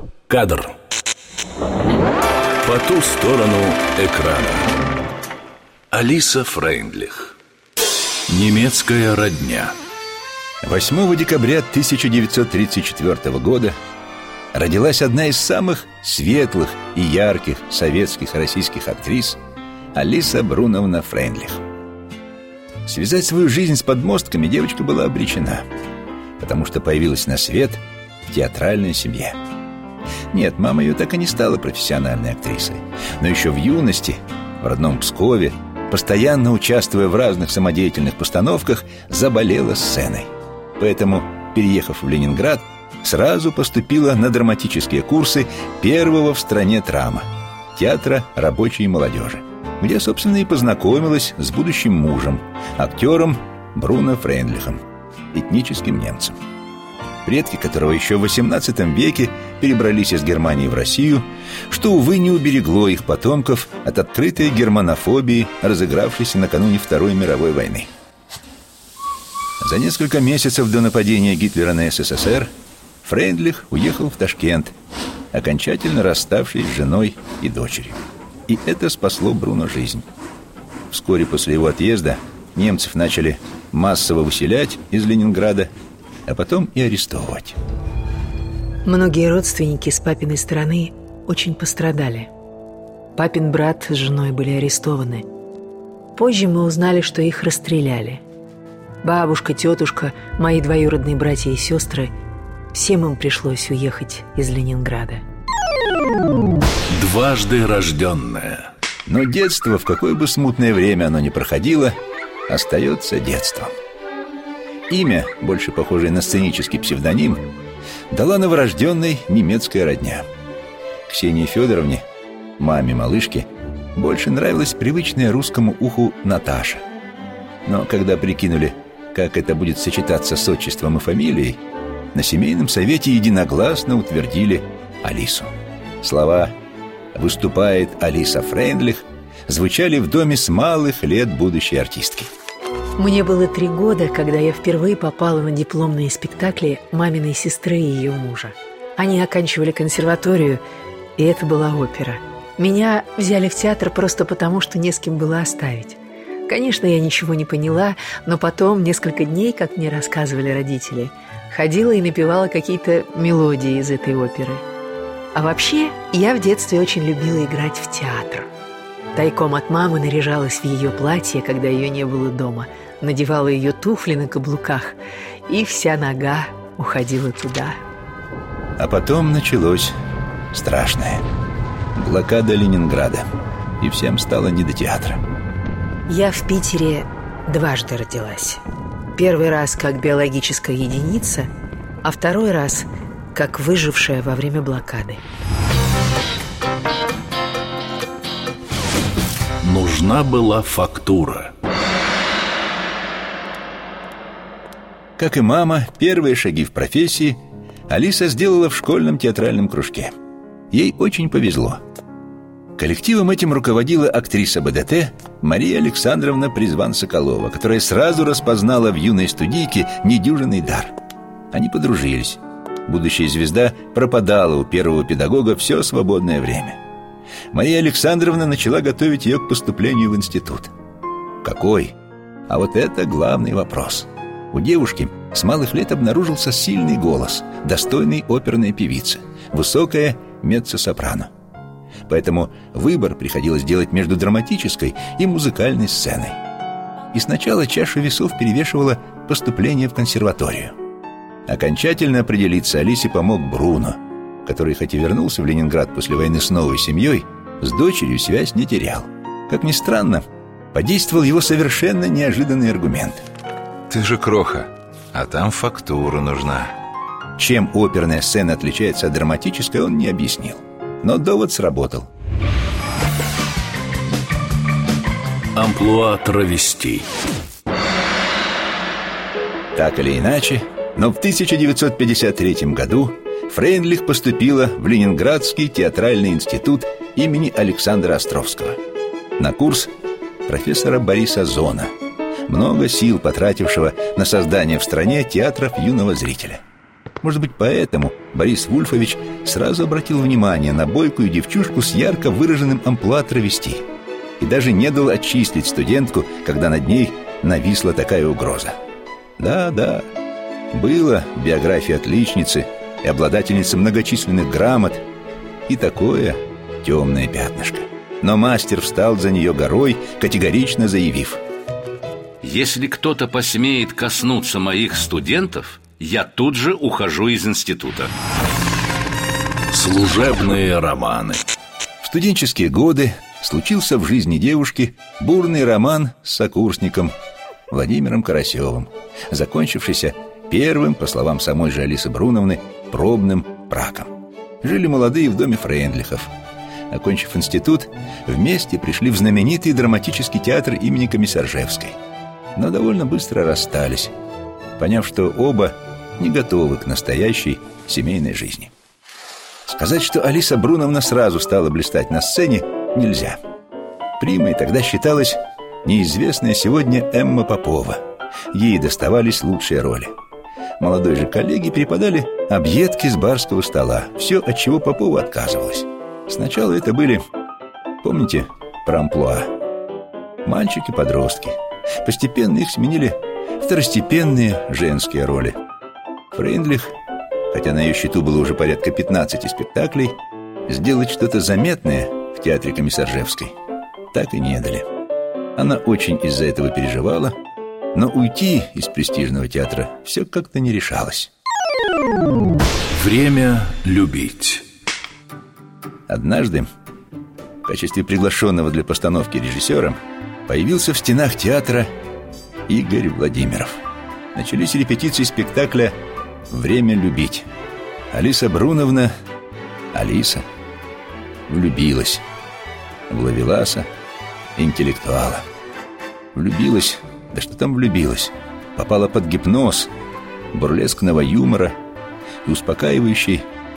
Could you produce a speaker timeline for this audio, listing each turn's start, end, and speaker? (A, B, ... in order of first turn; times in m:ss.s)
0:00.3-0:00.7 A
0:02.6-0:04.7 A
0:05.9-0:07.4 A
0:08.3-0:09.8 A
0:10.6-0:13.7 B
0:14.5-0:19.4 B
0:19.9-0:21.6 B
0:22.8-0:25.7 B
0:26.4-0:29.4 B
0:30.3-0:56.4 B
0:57.2-1:07.9 B
1:09.6-1:12.5 B
1:13.0-1:14.7 B
1:15.3-1:20.1 B
1:20.9-1:25.7 B
1:26.3-1:27.6 B
1:28.8-1:32.3 C
1:33.1-1:35.2 C
1:36.1-1:38.2 C
1:39.0-1:42.1 C
1:42.7-1:45.2 C
1:46.9-1:48.7 A
1:49.0-1:52.0 B
1:52.5-1:53.7 B
1:54.9-1:57.4 B
1:58.1-2:00.2 B
2:01.1-2:02.0 B
2:02.6-2:06.8 B
2:07.6-2:11.6 B
2:12.1-2:15.5 B
2:16.0-2:16.5 B
2:17.1-2:22.3 B
2:23.0-2:30.6 C
2:31.2-2:44.6 C
2:45.3-2:48.5 C
2:49.1-2:57.8 C
2:58.8-2:59.9 B
3:00.5-3:01.2 B
3:02.0-3:03.3 B
3:03.8-3:05.2 B
3:06.1-3:08.6 C
3:09.1-3:11.5 C
3:12.0-3:15.2 C
3:19.6-3:21.5 A
3:25.2-3:30.1 B
3:30.7-3:31.8 B
3:32.8-3:40.9 B
3:41.5-3:46.8 B
3:47.5-3:50.7 B
3:51.4-3:51.9 B
3:52.5-4:01.3 B
4:02.1-4:06.4 B
4:07.1-4:10.8 B
4:11.5-4:20.2 B
4:20.7-4:23.2 B
4:23.9-4:26.7 D
4:27.4-4:32.1 B
4:35.5-4:37.1 A
4:39.7-4:48.8 B
4:49.4-4:49.9 B
4:50.4-4:51.9 B
4:52.5-4:56.6 B
4:57.2-5:03.8 B
5:04.4-5:08.8 B
5:09.4-5:10.1 B
5:10.7-5:15.0 B
5:15.7-5:21.4 B
5:22.4-5:28.0 B
5:29.7-5:31.4 A
5:32.0-5:37.1 B
5:37.7-5:44.1 B
5:44.6-5:46.3 B
5:46.9-5:52.0 B
5:52.6-5:54.1 B
5:54.8-5:58.7 B
5:59.6-6:03.4 B
6:04.2-6:10.1 B
6:10.8-6:17.2 B
6:18.0-6:19.5 B
6:20.4-6:25.6 B
6:26.3-6:26.9 B
6:27.5-6:33.5 B
6:34.1-6:34.9 B
6:35.6-6:37.4 B
6:37.9-6:41.3 B
6:42.9-6:44.6 A
6:46.1-6:46.7 B
6:47.6-6:51.9 B
6:52.7-6:53.8 B
6:54.3-6:55.9 B
6:56.5-6:57.5 B
6:58.1-6:59.1 B
6:59.9-7:00.4 B
7:01.5-7:02.2 B
7:03.1-7:03.9 B
7:04.6-7:05.4 B
7:06.3-7:09.9 B
7:10.5-7:11.7 B
7:12.4-7:13.4 B